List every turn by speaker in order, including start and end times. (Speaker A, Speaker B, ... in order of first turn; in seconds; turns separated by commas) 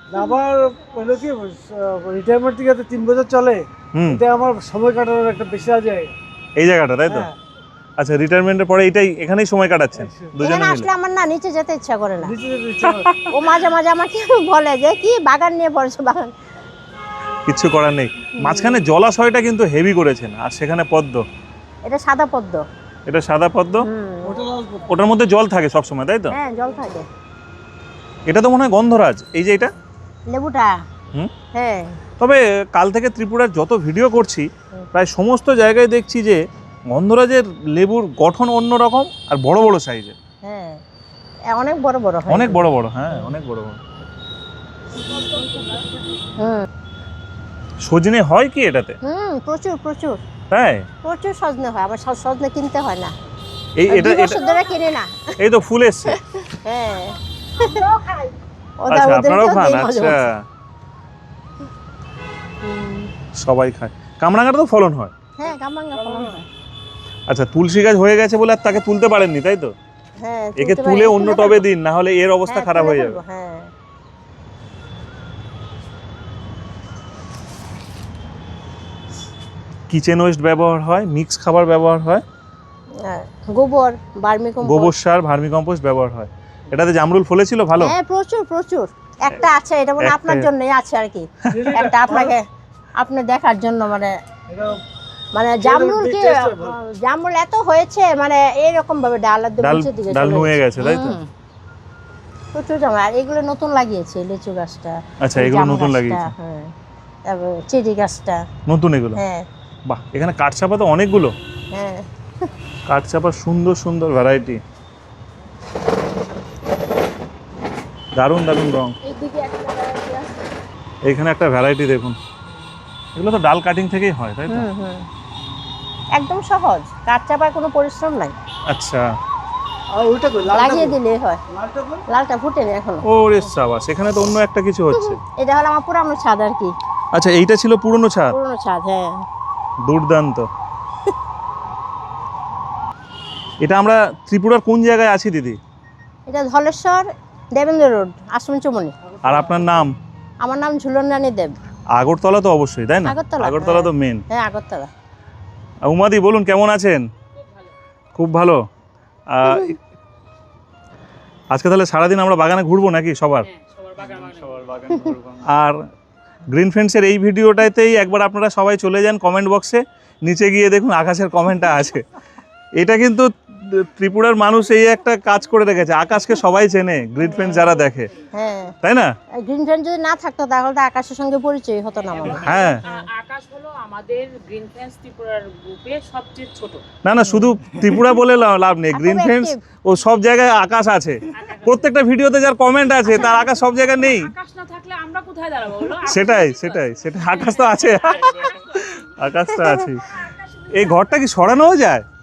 Speaker A: 0.1-6.2, Speaker B: 3.9-4.2, Speaker B: 6.6-7.3, Speaker A: 7.0-7.4, Speaker B: 8.0-10.9, Speaker A: 10.1-10.4, Speaker C: 10.4-12.3, Speaker A: 12.2-13.1, Speaker B: 12.8-13.3, Speaker C: 13.2-16.3, Speaker B: 17.5-21.2, Speaker C: 18.3-18.9, Speaker C: 21.9-22.6, Speaker B: 23.1-23.9, Speaker C: 23.8-24.4, Speaker A: 24.2-24.9, Speaker B: 24.9-26.4, Speaker C: 26.3-27.1, Speaker B: 28.3-29.7, Speaker C: 30.3-30.7, Speaker C: 31.5-32.0, Speaker B: 32.2-40.1, Speaker C: 40.4-40.8, Speaker C: 41.5-43.3, Speaker B: 42.3-43.8, Speaker C: 46.4-46.7, Speaker B: 47.9-49.0, Speaker C: 49.0-50.2, Speaker B: 50.5-50.9, Speaker C: 51.0-53.1, Speaker B: 53.8-54.5, Speaker C: 53.9-55.4, Speaker B: 55.4-56.2, Speaker C: 56.1-58.1, Speaker C: 58.8-60.2, Speaker B: 58.9-60.4, Speaker C: 62.6-63.1, Speaker B: 63.4-65.1, Speaker C: 65.4-66.5, Speaker B: 67.3-69.7, Speaker C: 70.2-71.7, Speaker B: 70.6-73.2, Speaker C: 72.5-73.7, Speaker B: 79.9-82.2, Speaker C: 83.0-84.9, Speaker B: 84.6-87.9, Speaker C: 87.8-92.4, Speaker B: 90.0-90.5, Speaker A: 91.5-92.3, Speaker C: 93.0-94.2, Speaker A: 94.5-94.8, Speaker C: 95.3-101.3, Speaker A: 95.6-96.8, Speaker B: 99.6-101.2, Speaker C: 102.5-106.7, Speaker B: 105.2-106.3, Speaker C: 107.3-108.5, Speaker B: 108.7-109.2, Speaker C: 109.2-109.5, Speaker B: 109.9-111.3, Speaker C: 111.7-112.1, Speaker B: 112.9-114.6, Speaker B: 118.2-119.0, Speaker C: 119.1-120.2, Speaker B: 121.1-122.2, Speaker B: 123.2-124.7, Speaker C: 124.5-125.1, Speaker C: 126.2-128.3, Speaker B: 128.7-129.1, Speaker A: 129.9-131.0, Speaker C: 130.5-131.4, Speaker A: 131.5-132.0, Speaker C: 132.1-133.0, Speaker B: 133.0-135.2, Speaker C: 134.9-136.7, Speaker B: 137.1-138.3, Speaker C: 138.3-139.2, Speaker B: 139.8-140.5, Speaker B: 143.6-145.6, Speaker C: 146.3-148.9, Speaker B: 149.2-149.9, Speaker C: 150.4-151.5, Speaker B: 152.0-154.2, Speaker C: 153.0-154.9, Speaker B: 155.8-157.1, Speaker B: 158.1-158.6, Speaker B: 159.3-159.8, Speaker B: 161.5-163.5, Speaker D: 163.7-164.8, Speaker C: 164.8-165.2, Speaker B: 165.3-165.8, Speaker B: 166.5-172.1, Speaker B: 172.8-178.1, Speaker C: 178.3-178.8, Speaker B: 178.8-179.1, Speaker C: 179.4-183.1, Speaker B: 182.3-182.8, Speaker D: 182.9-186.8, Speaker B: 187.0-194.3, Speaker C: 187.3-187.6, Speaker C: 188.9-189.6, Speaker D: 194.3-196.7, Speaker B: 196.0-202.0, Speaker C: 199.5-199.9